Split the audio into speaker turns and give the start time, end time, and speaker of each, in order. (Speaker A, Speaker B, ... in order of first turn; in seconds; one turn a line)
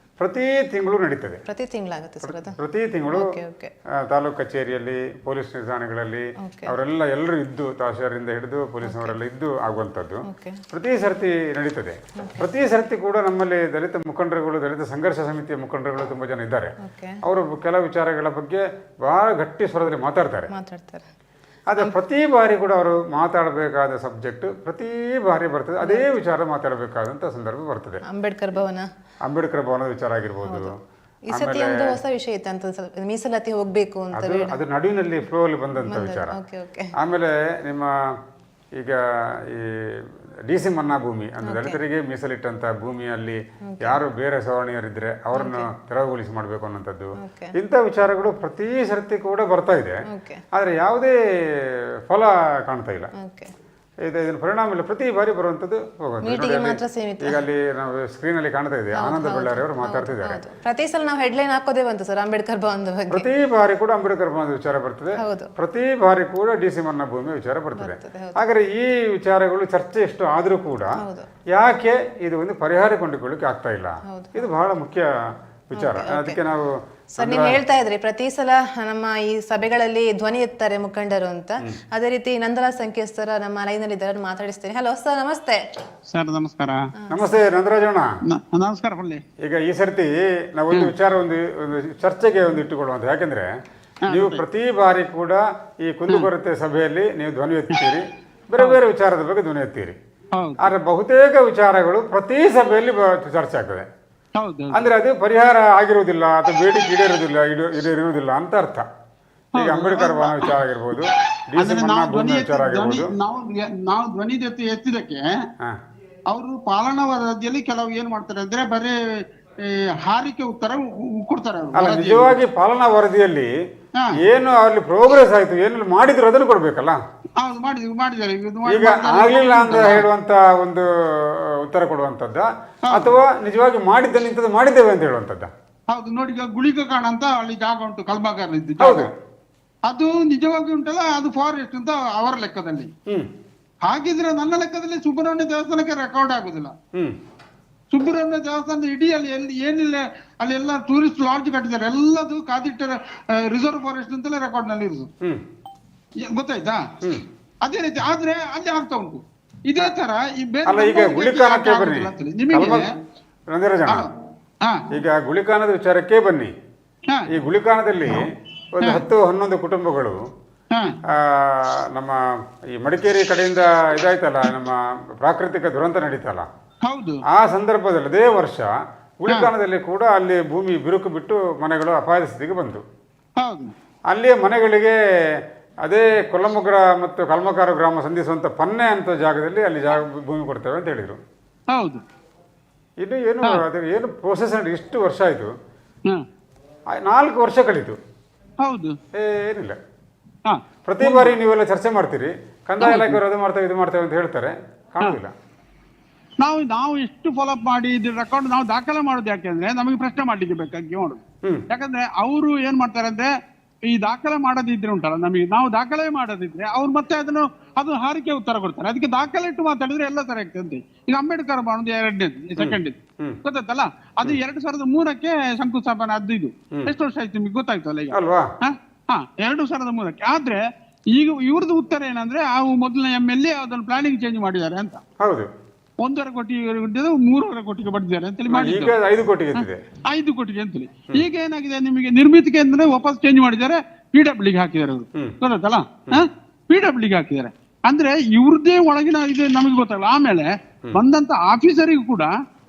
Speaker A: 0.2-1.4
Speaker B: 1.5-2.5
Speaker A: 2.2-3.2
Speaker B: 3.1-3.7
Speaker A: 4.1-10.2
Speaker B: 6.4-6.7
Speaker B: 8.8-9.2
Speaker B: 10.3-10.6
Speaker A: 10.7-20.5
Speaker B: 16.8-17.2
Speaker B: 20.5-21.1
Speaker A: 21.7-28.0
Speaker B: 28.1-28.9
Speaker A: 29.2-30.7
Speaker B: 31.3-34.6
Speaker A: 31.3-31.9
Speaker A: 34.2-36.3
Speaker B: 35.9-36.9
Speaker A: 37.0-37.9
Speaker A: 40.5-50.0
Speaker B: 41.5-41.8
Speaker B: 43.7-44.0
Speaker B: 45.3-45.7
Speaker B: 47.2-47.5
Speaker B: 50.1-50.4
Speaker A: 50.5-51.1
Speaker A: 52.1-53.1
Speaker B: 53.2-53.5
Speaker A: 54.1-60.4
Speaker B: 56.2-57.4
Speaker B: 59.0-63.3
Speaker A: 63.1-70.9
Speaker B: 65.2-65.5
Speaker B: 67.7-68.4
Speaker B: 71.0-71.3
Speaker A: 71.5-75.1
Speaker B: 74.1-74.5
Speaker A: 75.7-76.7
Speaker B: 75.7-76.4
Speaker B: 77.2-85.6
Speaker A: 77.2-77.6
Speaker C: 86.1-86.8
Speaker B: 87.0-87.3
Speaker A: 87.1-88.1
Speaker C: 88.3-89.2
Speaker A: 89.4-93.5
Speaker C: 94.1-94.4
Speaker A: 94.1-100.0
Speaker C: 100.3-100.7
Speaker A: 100.6-103.8
Speaker C: 104.4-104.9
Speaker A: 104.7-108.8
Speaker C: 109.5-110.5
Speaker A: 109.6-113.1
Speaker C: 111.6-115.2
Speaker C: 116.3-119.0
Speaker C: 119.7-122.4
Speaker A: 121.8-123.5
Speaker A: 124.2-127.0
Speaker C: 127.4-130.1
Speaker A: 128.7-130.8
Speaker A: 131.6-135.5
Speaker C: 132.9-133.2
Speaker C: 135.9-139.1
Speaker A: 138.8-139.1
Speaker C: 139.8-142.9
Speaker C: 143.8-146.7
Speaker C: 147.9-155.1
Speaker C: 156.2-156.8
Speaker C: 157.6-162.8
Speaker A: 160.7-162.8
Speaker A: 163.5-164.1
Speaker A: 164.9-166.5
Speaker A: 167.3-170.2
Speaker A: 171.2-172.2
Speaker A: 172.8-176.5
Speaker C: 176.8-177.2
Speaker A: 177.3-178.7
Speaker A: 179.2-182.8
Speaker C: 183.4-183.7
Speaker A: 184.1-184.9
Speaker A: 185.8-191.2
Speaker C: 191.7-192.0
Speaker A: 193.0-195.5
Speaker A: 197.0-198.0
Speaker C: 198.6-198.9
Speaker A: 199.1-199.8
Speaker C: 200.4-201.3
Speaker A: 200.9-205.3
Speaker C: 202.8-203.2
Speaker C: 206.4-213.3
Speaker C: 213.9-230.6
Speaker A: 222.6-223.4
Speaker A: 228.1-228.4
Speaker C: 231.1-235.0
Speaker A: 235.2-235.5
Speaker C: 236.0-238.9
Speaker A: 238.5-239.8
Speaker C: 239.6-252.3